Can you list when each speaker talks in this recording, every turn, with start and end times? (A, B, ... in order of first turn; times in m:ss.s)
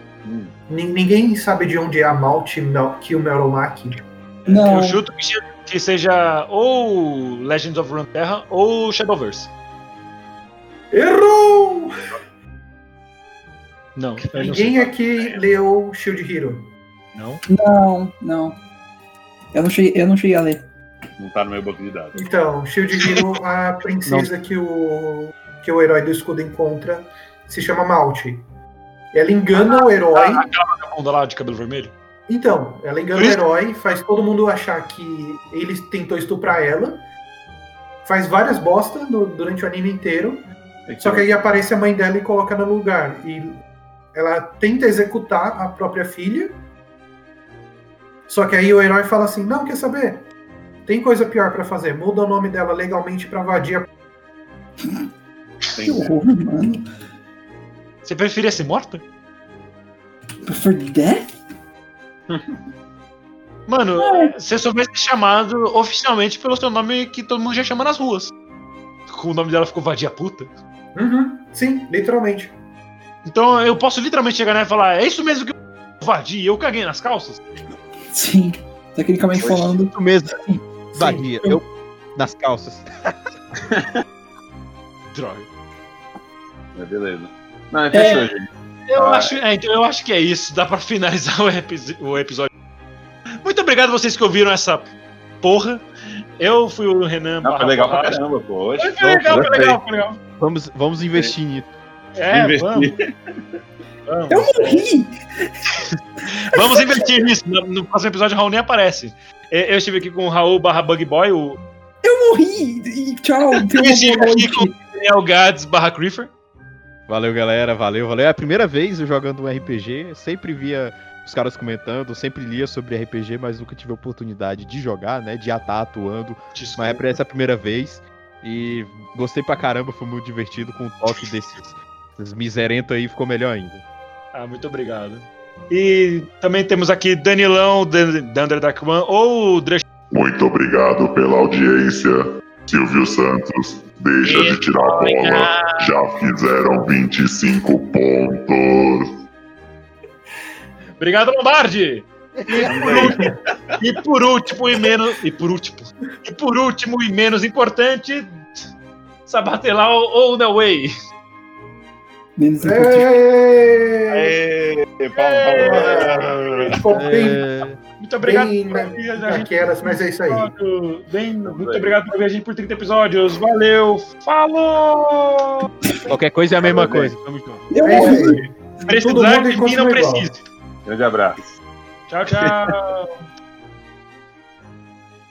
0:00.2-0:00.5 A
0:00.7-0:04.1 B
0:04.5-0:05.0 C
0:04.6-0:09.5 D
0:10.9-0:11.9 B
0:14.0-0:14.8 D
0:14.4-0:16.7 B
0:14.4-0:15.4 A
0:17.1-0:17.4 D
0:17.5-0:18.6 C
0:19.5-0:20.6 C
0:21.2-0:22.2 A
0:22.1-0:28.4 B
0:29.1-0:30.4 B
0:29.7-0:31.9 D
0:32.3-0:37.0 B
0:33.1-0:33.4 D
0:38.0-0:40.5 B
0:40.9-0:41.3 A
0:41.0-0:43.6 B
0:44.1-0:46.6 B
0:48.3-0:50.3 B
0:50.8-0:53.9 B
0:55.7-0:56.1 A
0:55.8-0:56.8 C
0:58.0-0:59.0 D
1:00.4-1:01.3 C
1:02.3-1:02.6 A
1:03.7-1:08.3 D
1:04.0-1:04.3 C
1:09.1-1:10.5 D
1:10.9-1:12.5 B
1:13.2-1:17.4 D
1:18.1-1:20.6 C
1:19.8-1:20.4 E
1:20.9-1:21.6 E
1:20.9-1:21.3 B
1:22.2-1:23.1 E
1:25.1-1:25.5 D
1:26.8-1:29.4 A
1:27.9-1:28.2 C
1:28.9-1:32.5 D
1:33.4-1:34.9 D
1:35.4-1:35.8 D
1:36.4-1:38.2 D
1:37.4-1:39.8 A
1:38.8-1:40.2 D
1:39.2-1:39.7 E
1:40.4-1:41.7 E
1:42.2-1:43.0 D
1:42.3-1:43.1 A
1:44.1-1:44.8 D
1:44.3-1:45.7 C
1:46.3-1:51.6 D
1:46.5-1:47.0 C
1:52.0-1:54.7 C
1:53.5-1:56.3 D
1:57.1-2:13.8 E
2:06.6-2:07.0 D
2:14.3-2:19.8 D
2:20.1-2:29.2 F
2:24.2-2:25.9 D
2:31.0-2:33.2 D
2:32.3-2:33.1 E
2:32.6-2:33.8 A
2:32.9-2:33.3 B
2:33.8-2:38.4 D
2:39.3-2:40.9 D
2:42.4-2:43.1 C
2:42.6-2:44.3 B
2:44.1-2:46.8 A
2:45.1-2:46.1 D
2:45.6-2:47.4 B
2:46.9-2:47.8 E
2:48.0-2:55.7 D
2:48.2-2:50.5 B
2:51.4-2:51.9 A
2:56.1-2:57.7 E
2:56.6-2:57.1 A
2:57.7-2:59.0 C
2:57.8-3:00.3 B
2:57.9-2:58.3 D
2:58.8-3:00.4 D
3:00.8-3:01.4 A
3:02.1-3:03.1 D
3:02.3-3:02.7 A